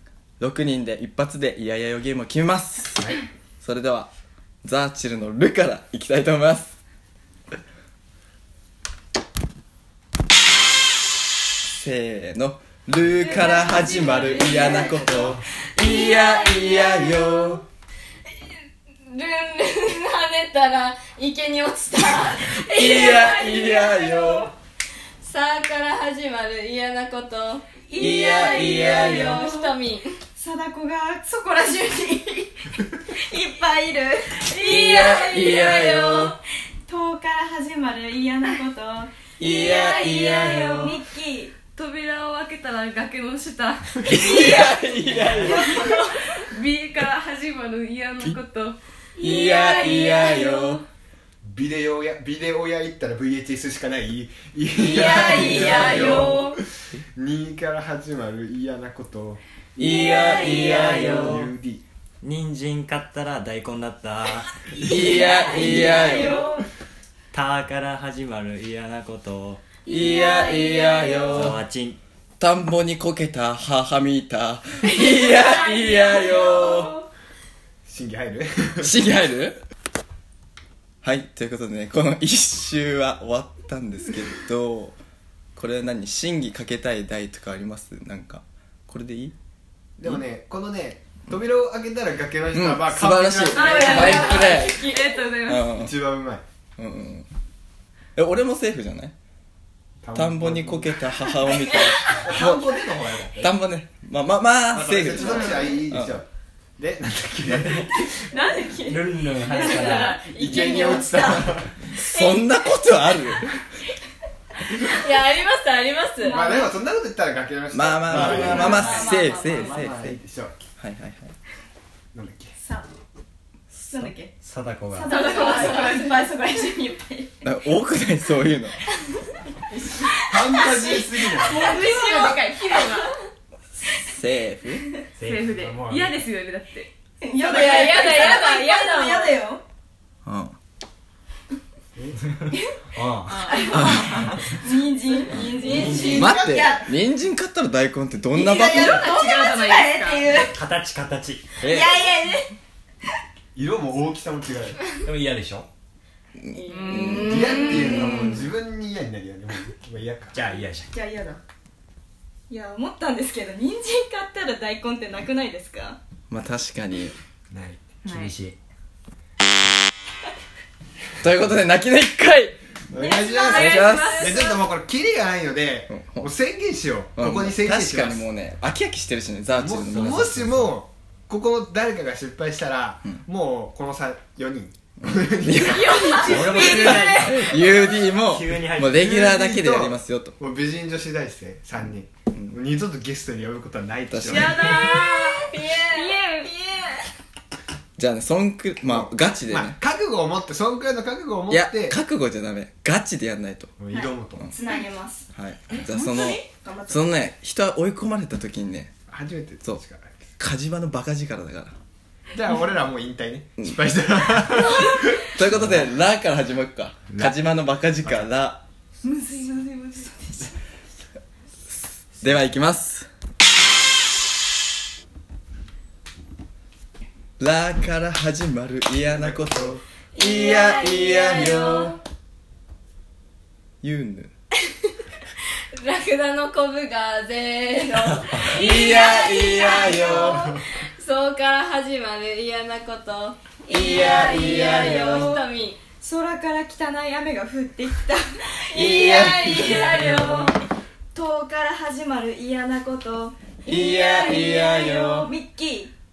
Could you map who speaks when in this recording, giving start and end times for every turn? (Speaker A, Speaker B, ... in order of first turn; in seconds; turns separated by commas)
Speaker A: 0.4-4.1, Speaker A: 4.6-6.8, Speaker A: 11.7-17.6, Speaker B: 13.4-14.9, Speaker C: 14.7-14.9, Speaker B: 15.8-17.5, Speaker B: 19.1-24.4, Speaker A: 22.5-24.5, Speaker B: 25.2-27.7, Speaker C: 27.9-29.7, Speaker A: 28.0-29.1, Speaker B: 28.9-30.2, Speaker C: 30.4-36.2, Speaker A: 34.6-36.3, Speaker B: 35.2-36.3, Speaker C: 36.9-41.5, Speaker A: 39.4-40.9, Speaker D: 41.7-44.7, Speaker A: 44.0-46.0, Speaker C: 44.2-44.9, Speaker E: 45.0-45.6, Speaker C: 45.5-46.0, Speaker D: 45.5-48.8, Speaker C: 49.2-50.4, Speaker A: 49.2-50.8, Speaker B: 49.4-50.1, Speaker D: 50.5-50.8, Speaker F: 51.4-56.6, Speaker D: 54.9-56.5, Speaker C: 54.9-56.5, Speaker F: 57.1-59.4, Speaker A: 59.8-61.3, Speaker C: 59.9-60.8, Speaker F: 60.6-61.8, Speaker E: 60.9-61.2, Speaker E: 62.2-64.5, Speaker A: 64.8-66.4, Speaker C: 65.1-66.6, Speaker E: 67.3-69.8, Speaker A: 69.8-71.6, Speaker C: 70.2-70.8, Speaker E: 71.3-72.0, Speaker A: 72.4-77.0, Speaker F: 77.9-79.0, Speaker A: 78.8-79.6, Speaker A: 81.0-85.0, Speaker A: 85.6-89.3, Speaker F: 90.0-94.2, Speaker A: 92.5-94.8, Speaker C: 93.6-95.2, Speaker D: 93.7-95.7, Speaker A: 95.5-95.9, Speaker F: 95.8-96.4, Speaker A: 96.8-97.3, Speaker A: 98.2-99.1, Speaker F: 100.0-101.0, Speaker A: 100.2-102.7, Speaker C: 101.7-102.2, Speaker F: 102.1-103.5, Speaker A: 103.4-106.2, Speaker F: 104.7-106.3, Speaker D: 105.3-105.6, Speaker F: 106.8-108.1, Speaker C: 107.8-112.7, Speaker E: 108.9-110.2, Speaker F: 110.2-111.8, Speaker A: 111.9-113.6, Speaker B: 114.7-116.4, Speaker C: 116.2-116.8, Speaker F: 116.3-118.6, Speaker A: 117.7-120.2, Speaker E: 118.1-120.1, Speaker C: 118.5-119.7, Speaker F: 120.0-120.5, Speaker A: 120.8-121.3, Speaker F: 122.1-122.5, Speaker C: 122.6-122.9, Speaker A: 123.8-124.1, Speaker C: 123.9-124.3, Speaker E: 124.4-125.1, Speaker C: 124.9-127.3, Speaker D: 125.1-126.2, Speaker B: 125.2-126.0, Speaker A: 127.4-128.8, Speaker C: 129.7-133.0, Speaker F: 130.3-131.8, Speaker D: 131.4-133.1, Speaker A: 134.1-134.9, Speaker D: 135.2-136.9, Speaker F: 135.2-136.1, Speaker E: 135.3-135.6, Speaker C: 137.2-139.6, Speaker B: 137.4-139.3, Speaker D: 137.4-138.6, Speaker A: 140.3-140.6, Speaker E: 142.9-144.2, Speaker D: 143.3-144.4, Speaker C: 143.5-146.9, Speaker D: 145.2-146.1, Speaker F: 145.7-146.7, Speaker E: 145.8-146.1, Speaker A: 146.1-149.1, Speaker C: 148.3-150.5, Speaker D: 148.5-150.4, Speaker E: 150.5-151.9, Speaker C: 151.6-152.5, Speaker F: 153.6-154.9, Speaker E: 155.0-155.7, Speaker A: 156.5-157.2, Speaker B: 156.6-158.4, Speaker D: 156.7-158.3, Speaker F: 157.2-160.4, Speaker E: 160.3-160.9, Speaker C: 160.6-161.4, Speaker C: 162.5-166.0, Speaker A: 166.3-167.1, Speaker F: 167.5-167.8, Speaker D: 168.1-168.3, Speaker E: 168.1-168.6, Speaker A: 171.2-172.6, Speaker F: 172.9-178.3, Speaker C: 172.9-174.7, Speaker A: 173.5-174.2, Speaker A: 175.9-176.3, Speaker A: 177.2-180.3, Speaker F: 179.6-187.2, Speaker E: 179.8-180.7, Speaker A: 185.1-190.4, Speaker D: 185.7-187.3, Speaker C: 186.0-187.3, Speaker E: 186.3-188.9, Speaker F: 188.9-194.6, Speaker A: 194.1-194.8, Speaker D: 194.3-196.5, Speaker C: 194.5-197.1, Speaker B: 195.3-196.1, Speaker A: 198.0-199.8, Speaker F: 198.9-202.0, Speaker A: 201.5-203.8, Speaker F: 203.8-204.5, Speaker C: 203.9-205.3, Speaker A: 205.3-208.9, Speaker D: 205.7-206.3, Speaker C: 206.5-207.1, Speaker F: 209.1-210.3, Speaker A: 210.4-211.8, Speaker F: 212.3-215.3, Speaker A: 215.3-218.6, Speaker F: 218.0-218.3, Speaker D: 219.0-220.4, Speaker A: 222.2-223.1, Speaker A: 227.4-231.9, Speaker F: 229.1-229.8, Speaker B: 230.1-232.0, Speaker A: 233.8-234.3, Speaker B: 235.8-245.8, Speaker A: 238.5-240.5, Speaker C: 238.6-239.0, Speaker C: 243.7-245.4, Speaker A: 243.7-244.8, Speaker C: 246.0-250.6, Speaker B: 248.7-250.4, Speaker A: 248.8-250.1, Speaker C: 251.1-255.9, Speaker A: 253.7-255.3, Speaker D: 254.5-255.0